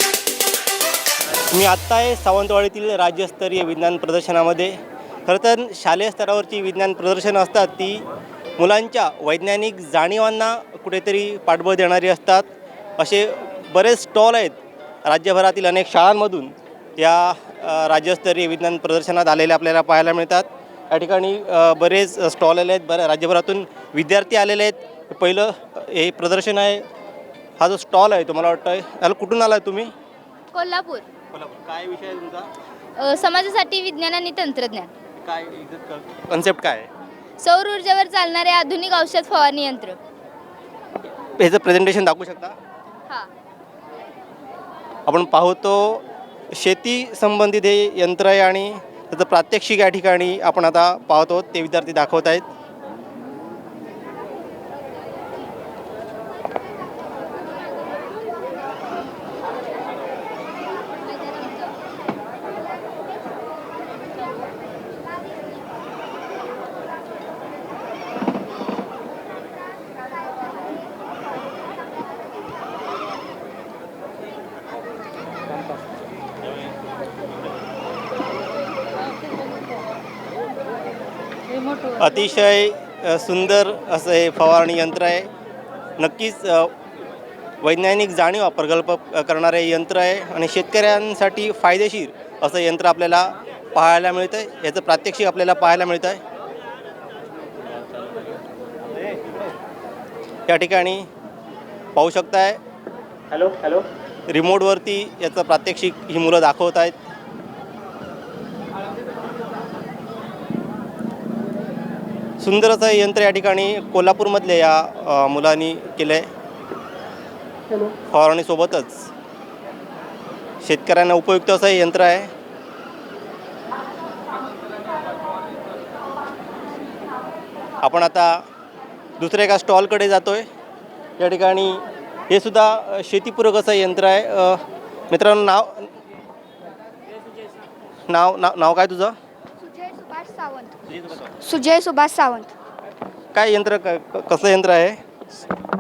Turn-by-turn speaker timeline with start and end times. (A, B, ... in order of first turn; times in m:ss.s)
0:01.5-0:04.7 A
0:05.2-0:08.0 A
0:08.6-0:12.5 A
0:13.0-0:26.8 A
0:27.6-0:29.9 A
0:30.6-0:31.0 B
0:31.3-0:32.5 A
0:33.0-0:34.9 B
0:35.2-0:36.9 A
0:37.4-0:39.9 B
0:41.4-0:42.6 A
0:45.1-0:52.4 A
1:22.0-1:25.3 A
1:26.0-1:26.7 A
1:27.6-1:36.2 A
1:40.5-1:41.1 A
1:42.0-1:42.6 A
1:44.3-1:46.9 A
1:52.4-1:56.3 A
1:58.1-1:59.1 A
2:00.6-2:02.3 A
2:07.8-2:08.3 A
2:09.2-2:10.4 A
2:11.2-2:15.9 A
2:18.1-2:19.1 A
2:19.6-2:20.7 C
2:20.9-2:21.3 A
2:21.4-2:22.5 C
2:23.3-2:25.0 A